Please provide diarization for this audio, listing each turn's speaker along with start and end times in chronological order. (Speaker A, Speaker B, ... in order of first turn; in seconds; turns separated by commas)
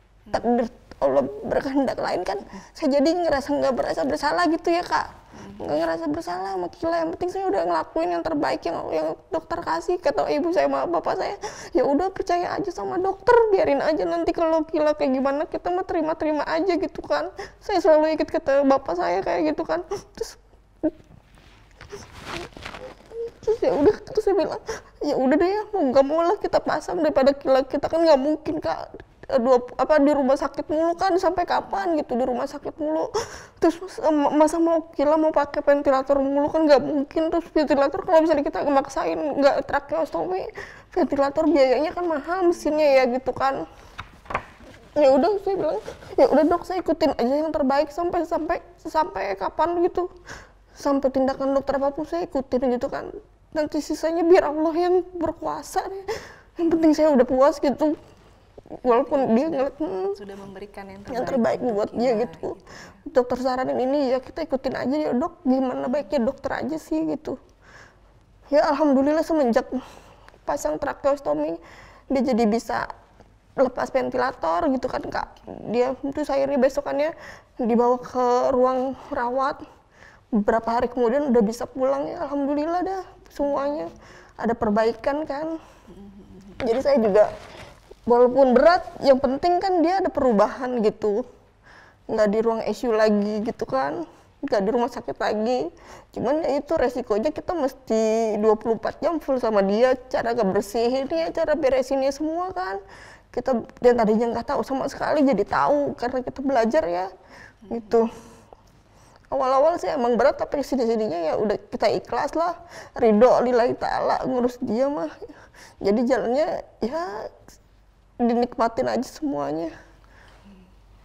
Speaker A: 0.3-20.9, Speaker B: 5.3-5.8, Speaker A: 23.1-43.6, Speaker B: 31.6-31.9, Speaker A: 45.0-50.1, Speaker A: 50.8-58.0, Speaker A: 58.8-60.2, Speaker B: 58.9-63.0, Speaker A: 61.1-67.4, Speaker A: 68.5-69.8, Speaker A: 70.5-72.9, Speaker A: 73.6-79.6, Speaker A: 80.3-85.6, Speaker B: 83.4-83.9, Speaker B: 85.9-86.8, Speaker A: 86.6-87.3, Speaker A: 88.1-91.2, Speaker A: 92.1-102.8, Speaker A: 103.3-107.1, Speaker B: 107.6-108.1, Speaker A: 107.7-108.1, Speaker A: 109.3-115.3, Speaker A: 115.8-117.4, Speaker A: 118.2-119.7